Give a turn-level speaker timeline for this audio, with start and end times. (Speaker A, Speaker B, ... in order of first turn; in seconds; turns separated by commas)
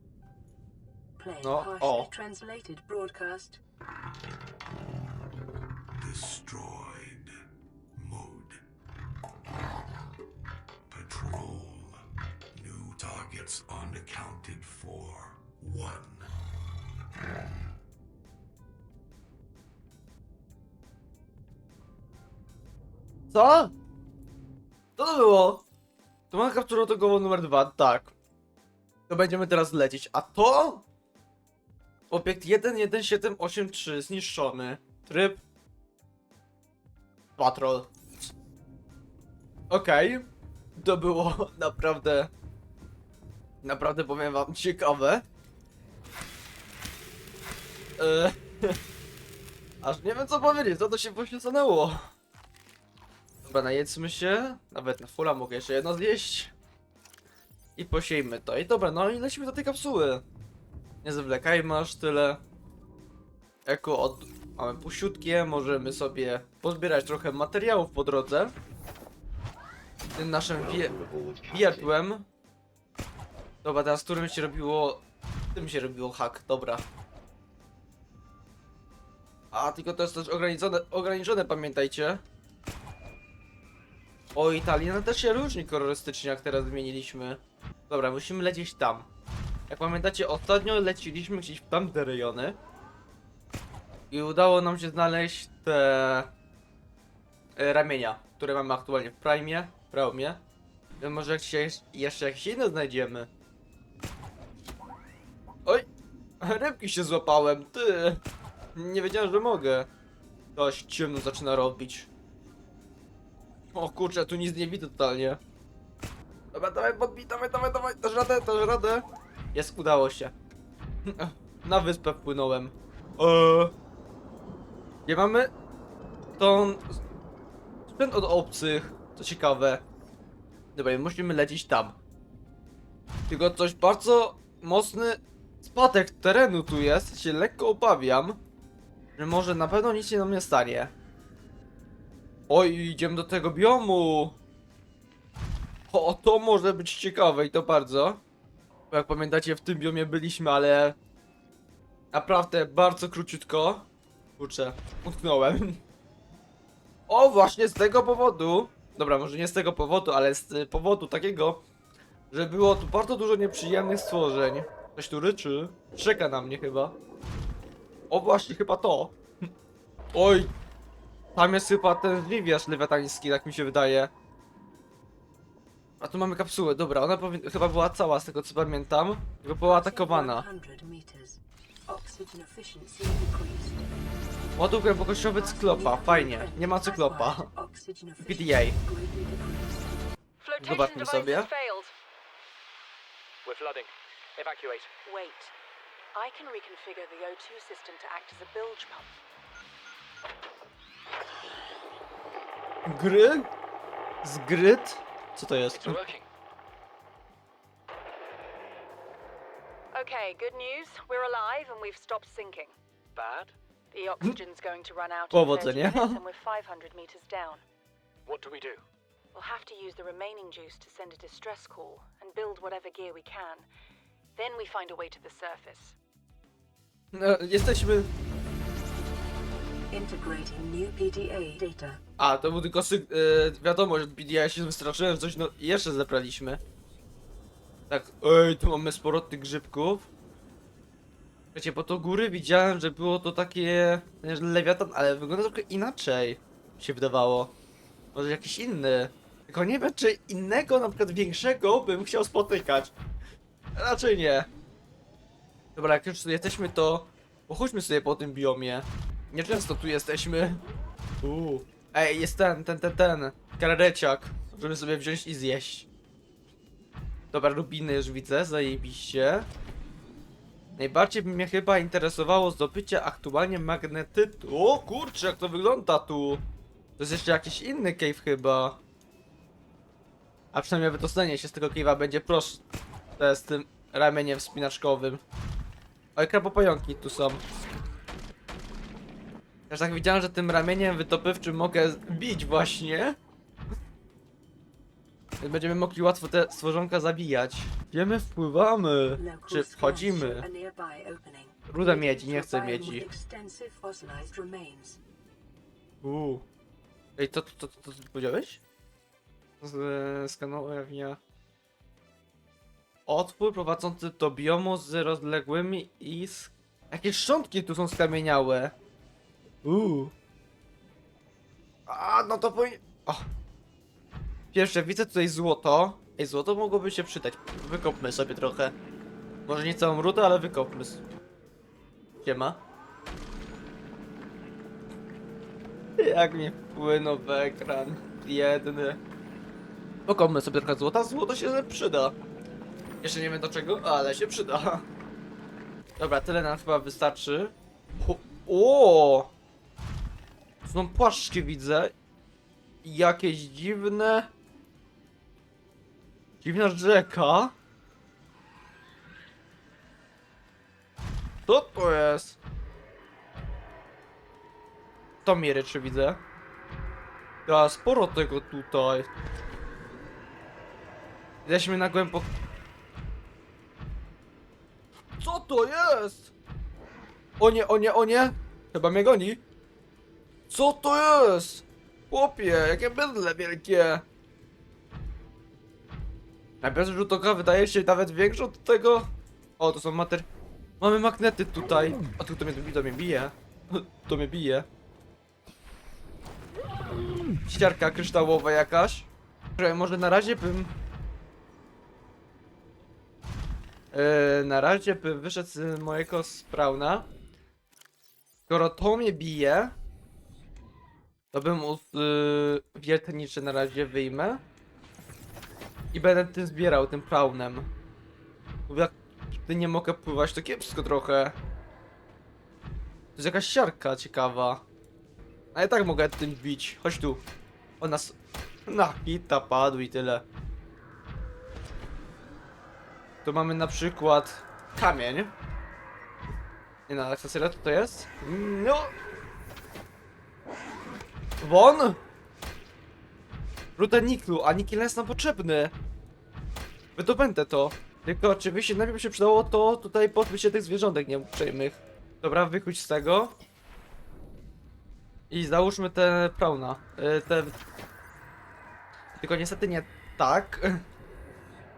Speaker A: 1.2-3.6, Speaker B: 1.4-2.1, Speaker C: 6.0-7.3, Speaker C: 8.0-8.6, Speaker C: 10.9-12.0, Speaker C: 12.5-16.3, Speaker B: 23.3-23.7, Speaker B: 25.0-25.6, Speaker B: 26.3-28.1, Speaker B: 29.1-30.9, Speaker B: 32.1-35.4, Speaker B: 37.4-38.3, Speaker B: 39.7-42.3, Speaker B: 43.6-45.2, Speaker B: 48.0-48.8, Speaker B: 49.8-52.1, Speaker B: 53.4-56.5, Speaker B: 57.8-60.2, Speaker B: 61.0-62.4, Speaker B: 63.6-68.5, Speaker B: 70.2-72.3, Speaker B: 73.6-76.9, Speaker B: 79.5-82.2, Speaker B: 84.3-89.1, Speaker B: 89.7-92.6, Speaker B: 94.1-96.3, Speaker B: 97.5-100.4, Speaker B: 101.0-103.3, Speaker B: 106.4-108.2, Speaker B: 108.7-109.9, Speaker B: 110.5-112.1, Speaker B: 113.7-115.4, Speaker B: 116.5-120.3, Speaker B: 121.0-123.7, Speaker B: 125.0-125.5, Speaker B: 126.4-127.0, Speaker B: 127.9-129.8, Speaker B: 130.8-132.0, Speaker B: 133.3-138.4, Speaker B: 139.2-140.9, Speaker B: 142.5-144.4, Speaker B: 145.9-148.2, Speaker B: 148.9-151.0, Speaker B: 152.1-155.8, Speaker B: 157.1-161.6, Speaker B: 162.3-167.0, Speaker B: 168.1-169.5, Speaker B: 170.1-170.5, Speaker B: 171.3-174.1, Speaker B: 176.0-180.4, Speaker A: 179.6-183.9, Speaker B: 184.6-187.5, Speaker A: 185.3-190.0, Speaker B: 188.2-188.8, Speaker D: 190.4-191.9, Speaker B: 190.6-191.5, Speaker E: 193.4-194.9, Speaker D: 195.1-195.5, Speaker D: 196.1-199.1, Speaker B: 202.8-203.5, Speaker B: 204.2-206.0, Speaker E: 205.7-206.2, Speaker D: 209.9-212.7, Speaker E: 213.1-213.5, Speaker D: 213.9-217.6, Speaker B: 215.3-216.2, Speaker E: 218.2-218.8, Speaker D: 219.3-223.7, Speaker D: 224.3-225.9, Speaker B: 227.1-228.1, Speaker A: 229.9-232.0, Speaker B: 232.2-236.6, Speaker B: 237.9-240.1, Speaker B: 241.5-247.5, Speaker B: 248.1-252.9, Speaker B: 253.8-254.5, Speaker B: 255.8-260.6, Speaker B: 261.2-265.9, Speaker B: 267.3-269.5, Speaker B: 270.8-276.4, Speaker B: 277.0-278.8, Speaker B: 280.5-282.6, Speaker B: 283.2-285.2, Speaker B: 286.1-287.4, Speaker B: 289.7-293.2, Speaker B: 295.4-300.4, Speaker A: 299.2-305.0, Speaker B: 301.7-303.1, Speaker B: 306.0-306.4, Speaker B: 307.2-308.6, Speaker B: 309.6-311.2, Speaker B: 313.1-318.7, Speaker B: 319.6-320.1, Speaker B: 321.9-323.2, Speaker B: 324.5-328.7, Speaker B: 329.4-331.0, Speaker B: 332.2-332.6, Speaker B: 336.0-339.0, Speaker B: 340.1-342.1, Speaker B: 343.0-344.9, Speaker B: 346.0-349.3, Speaker B: 350.6-351.9, Speaker B: 352.8-354.3, Speaker B: 356.4-357.5, Speaker B: 361.4-362.4, Speaker B: 365.2-366.2, Speaker B: 367.4-369.1, Speaker B: 371.4-372.3, Speaker B: 375.2-376.3, Speaker B: 377.4-379.4, Speaker B: 380.5-384.0, Speaker B: 386.6-390.3, Speaker B: 390.8-394.7, Speaker B: 397.4-400.7, Speaker B: 403.9-407.1, Speaker B: 408.5-409.7, Speaker B: 411.3-414.4, Speaker B: 415.9-417.7, Speaker B: 418.7-421.4, Speaker B: 423.1-424.6, Speaker B: 425.5-427.2, Speaker B: 427.8-428.1, Speaker B: 428.7-430.2, Speaker B: 433.2-435.3, Speaker B: 436.9-438.9, Speaker B: 441.4-442.0, Speaker B: 443.8-445.7, Speaker B: 446.9-453.4, Speaker B: 455.3-457.6, Speaker B: 459.2-460.8